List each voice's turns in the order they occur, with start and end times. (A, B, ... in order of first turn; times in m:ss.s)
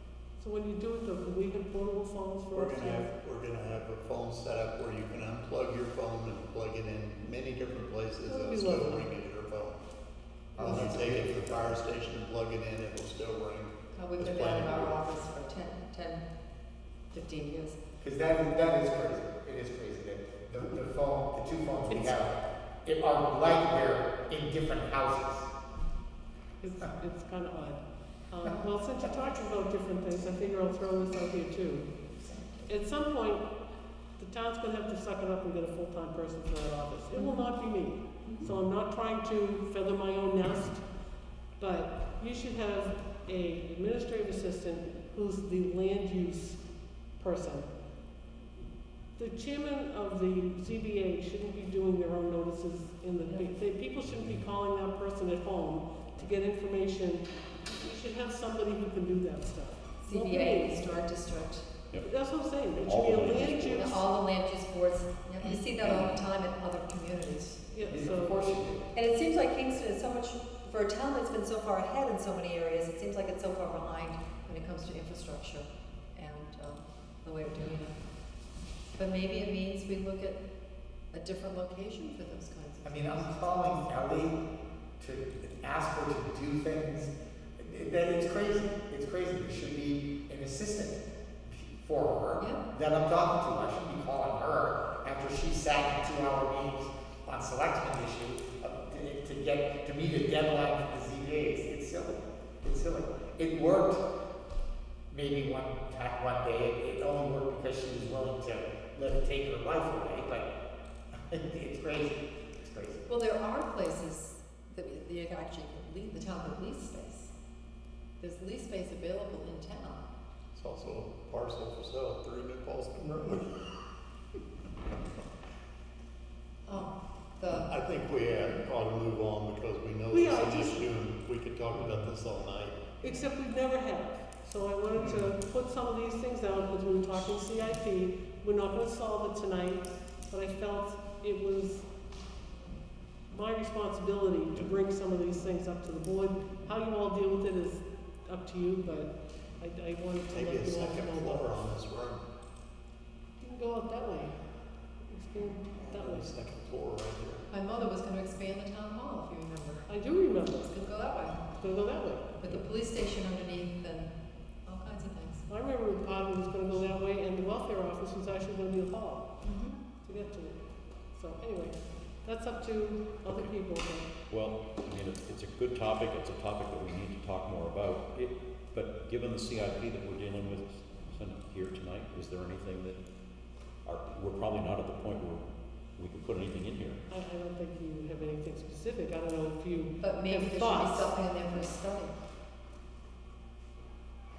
0:00.4-0:03.1 A
0:02.6-0:09.8 B
0:08.3-0:09.1 A
0:10.6-0:11.8 C
0:10.6-0:15.0 B
0:13.9-0:16.2 D
0:17.1-0:17.8 D
0:18.0-0:25.5 C
0:21.9-0:22.2 A
0:26.6-0:31.9 A
0:32.2-0:32.7 C
0:32.7-0:33.5 A
0:34.2-0:40.8 A
0:37.2-0:37.4 D
0:41.6-0:46.6 A
0:47.2-0:47.7 A
0:49.2-1:00.8 A
1:00.0-1:01.7 D
1:02.0-1:04.0 A
1:02.8-1:03.9 E
1:03.7-1:07.7 D
1:07.7-1:08.4 A
1:07.8-1:08.9 C
1:09.0-1:18.0 D
1:19.0-1:20.4 D
1:21.1-1:23.8 D
1:22.8-1:24.4 C
1:25.0-1:44.0 C
1:45.1-1:50.5 C
1:51.2-1:53.1 C
1:53.1-1:57.3 D
1:58.2-2:00.0 D
2:00.5-2:03.9 B
2:06.7-2:07.7 D
2:07.5-2:12.8 B
2:10.1-2:10.8 A
2:13.0-2:21.9 A
2:23.3-2:31.5 A
2:30.3-2:32.2 B
2:33.4-2:34.4 A
2:35.1-2:36.3 A
2:35.8-2:37.4 B
2:37.5-2:39.9 D
2:39.9-2:40.7 A
2:40.7-2:41.5 D
2:41.5-2:42.3 A
2:42.4-2:44.1 D
2:44.7-2:45.5 D
2:45.5-2:49.3 A
2:49.4-2:49.8 D
2:50.0-2:50.6 A
2:51.1-2:54.1 A
2:53.2-2:53.6 E
2:54.3-3:03.0 E
3:03.8-3:05.4 E
3:06.0-3:07.0 E
3:07.1-3:11.1 A
3:10.0-3:12.2 D